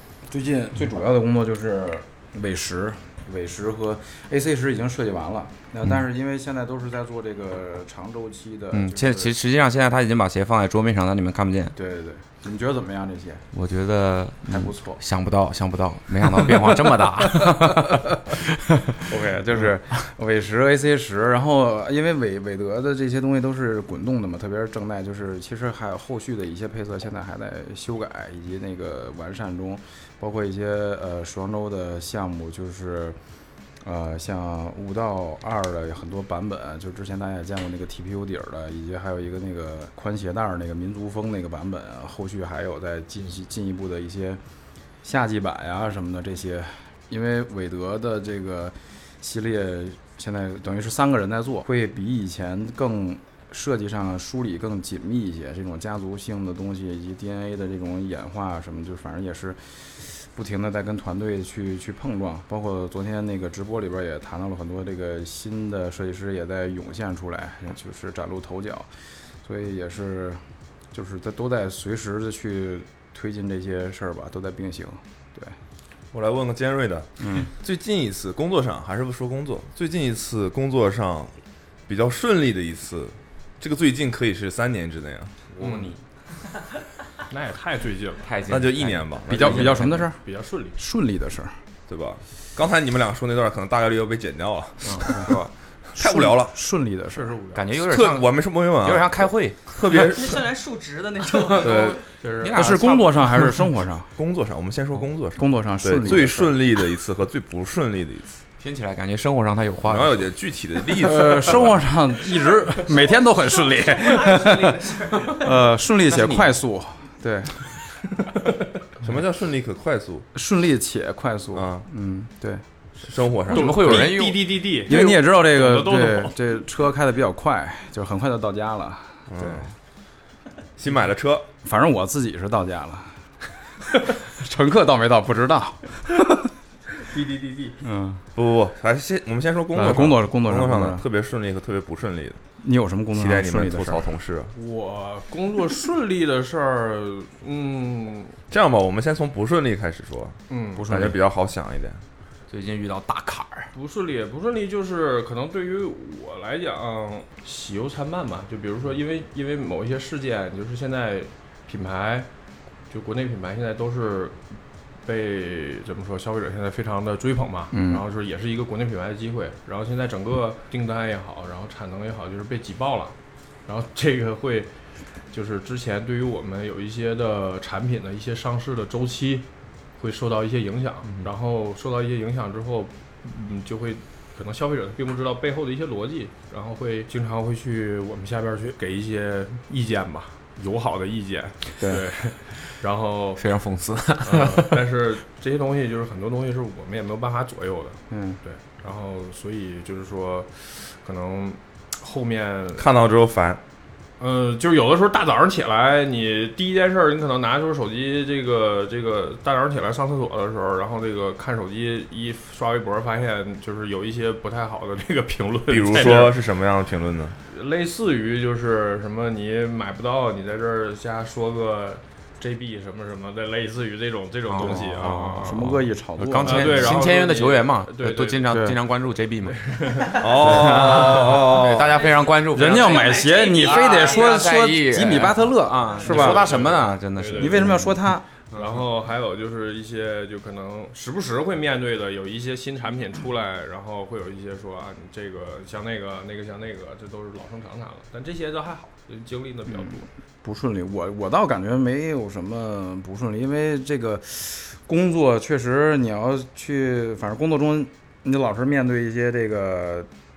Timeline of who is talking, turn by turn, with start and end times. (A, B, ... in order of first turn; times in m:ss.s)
0:00.3-0:09.3 A
0:08.7-0:11.8 B
0:11.8-0:13.4 A
0:13.5-0:19.7 B
0:14.5-0:15.0 A
0:19.0-0:33.2 A
0:33.8-0:44.4 A
0:45.0-1:08.9 A
1:09.4-1:10.4 A
1:10.9-1:15.6 A
1:16.1-1:21.3 C
1:17.2-1:17.5 A
1:21.9-1:25.4 C
1:25.6-1:25.9 D
1:27.3-1:28.3 D
1:28.2-1:30.0 B
1:28.5-1:29.8 C
1:29.3-1:30.2 A
1:29.4-1:30.8 D
1:30.8-1:31.6 A
1:31.9-1:35.4 C
1:35.0-1:35.5 B
1:36.0-1:36.6 C
1:36.0-1:37.4 A
1:37.2-1:37.6 D
1:37.6-1:39.7 B
1:37.8-1:40.4 C
1:39.9-1:42.0 E
1:41.5-1:42.0 C
1:42.2-1:42.6 D
1:42.4-1:43.4 B
1:42.5-1:44.1 A
1:44.2-1:48.3 C
1:45.4-1:46.6 A
1:48.6-1:50.3 B
1:49.8-1:51.9 C
1:51.0-1:57.8 A
1:52.4-1:55.6 E
1:56.1-1:56.5 B
1:59.0-2:00.3 C
2:00.3-2:02.6 A
2:01.5-2:01.9 C
2:03.0-2:03.9 C
2:03.5-2:05.3 B
2:03.5-2:06.4 D
2:04.8-2:09.7 A
2:09.3-2:09.7 C
2:10.8-2:11.5 C
2:11.6-2:13.1 A
2:14.0-2:16.5 A
2:17.3-2:17.8 D
2:17.8-2:18.2 A
2:18.4-2:22.4 C
2:19.7-2:21.0 A
2:22.6-2:24.1 A
2:23.1-2:24.5 C
2:24.5-2:28.4 D
2:28.5-2:32.0 C
2:30.5-2:30.9 D
2:30.8-2:31.2 A
2:32.5-2:33.7 B
2:33.7-2:42.3 D
2:42.9-2:44.4 D
2:45.0-2:53.2 D
2:47.7-2:48.0 A
2:53.7-2:54.7 D
2:55.3-2:59.5 D
3:00.0-3:13.4 D
3:13.4-3:14.8 B
3:14.2-3:22.9 D
3:18.1-3:18.4 A
3:22.8-3:23.6 C
3:24.2-3:36.4 D
3:35.7-3:37.4 C
3:37.4-3:45.7 D
3:44.5-3:49.7 B
3:44.6-3:47.1 A
3:46.4-3:48.8 D
3:48.5-3:48.8 A
3:49.4-3:50.2 D
3:50.2-3:52.0 C
3:50.4-3:51.5 A
3:50.6-3:58.0 B
3:51.9-3:54.5 E
3:52.5-3:56.6 A
3:56.0-3:57.8 D
3:57.3-3:58.3 A
3:58.5-4:10.1 D
4:09.7-4:20.1 A